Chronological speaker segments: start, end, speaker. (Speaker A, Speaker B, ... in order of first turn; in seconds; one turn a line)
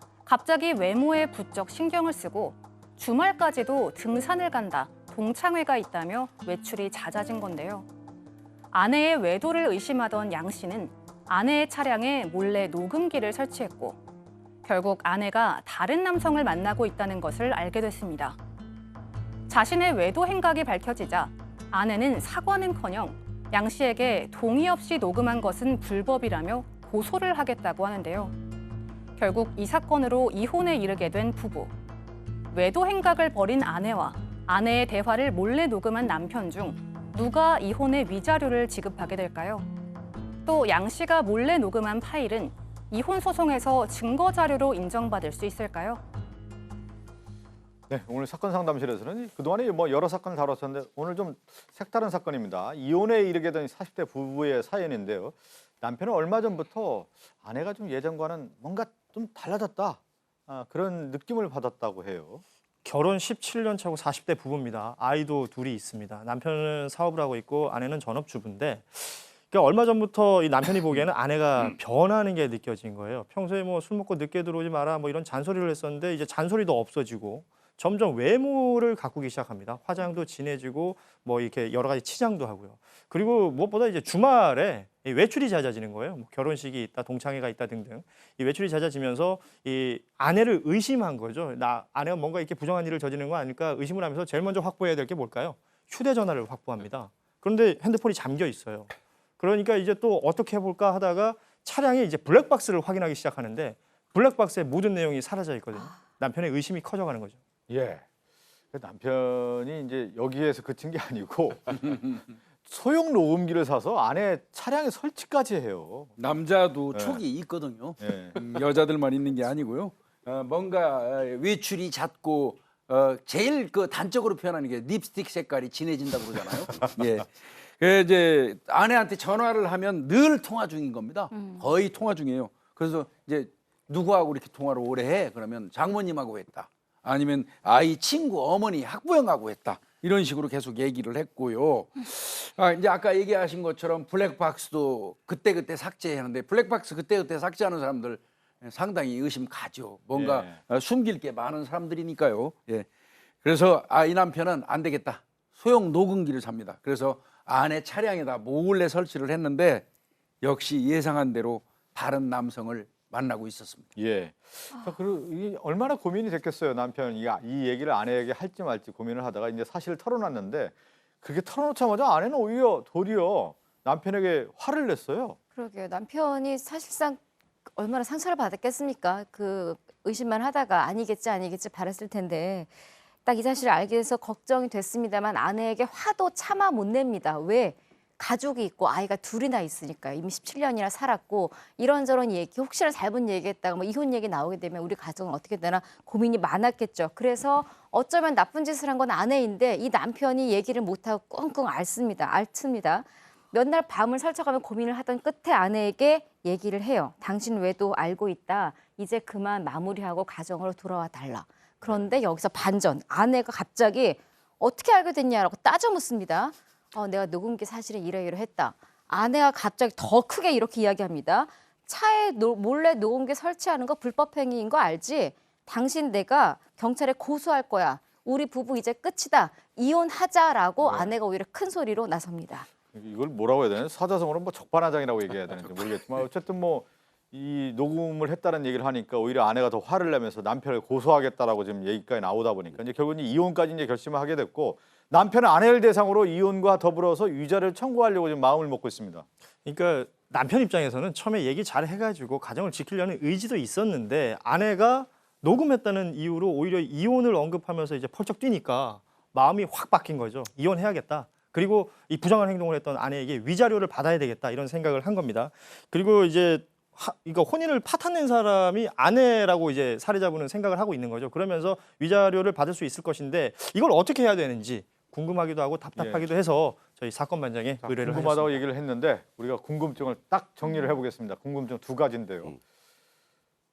Speaker A: 0.2-7.8
Speaker A: 8.7-14.0
Speaker A: 14.6-18.4
Speaker A: 19.5-28.3
Speaker A: 29.2-31.7
Speaker A: 32.5-39.7
Speaker A: 40.5-46.0
Speaker B: 47.9-62.4
Speaker C: 62.8-107.4
Speaker B: 107.7-108.0
Speaker B: 108.7-116.1
Speaker D: 116.2-152.9
Speaker B: 116.9-117.2
Speaker B: 118.0-118.4
Speaker E: 131.3-131.6
Speaker B: 150.1-150.5
Speaker D: 153.4-159.8
Speaker D: 160.4-163.9
Speaker B: 164.0-175.4
Speaker E: 175.5-177.2
Speaker E: 177.7-182.7
Speaker E: 183.2-232.7
Speaker B: 230.8-231.1
Speaker B: 232.8-249.2
Speaker C: 249.6-278.6
Speaker B: 275.9-276.3
Speaker B: 277.8-282.5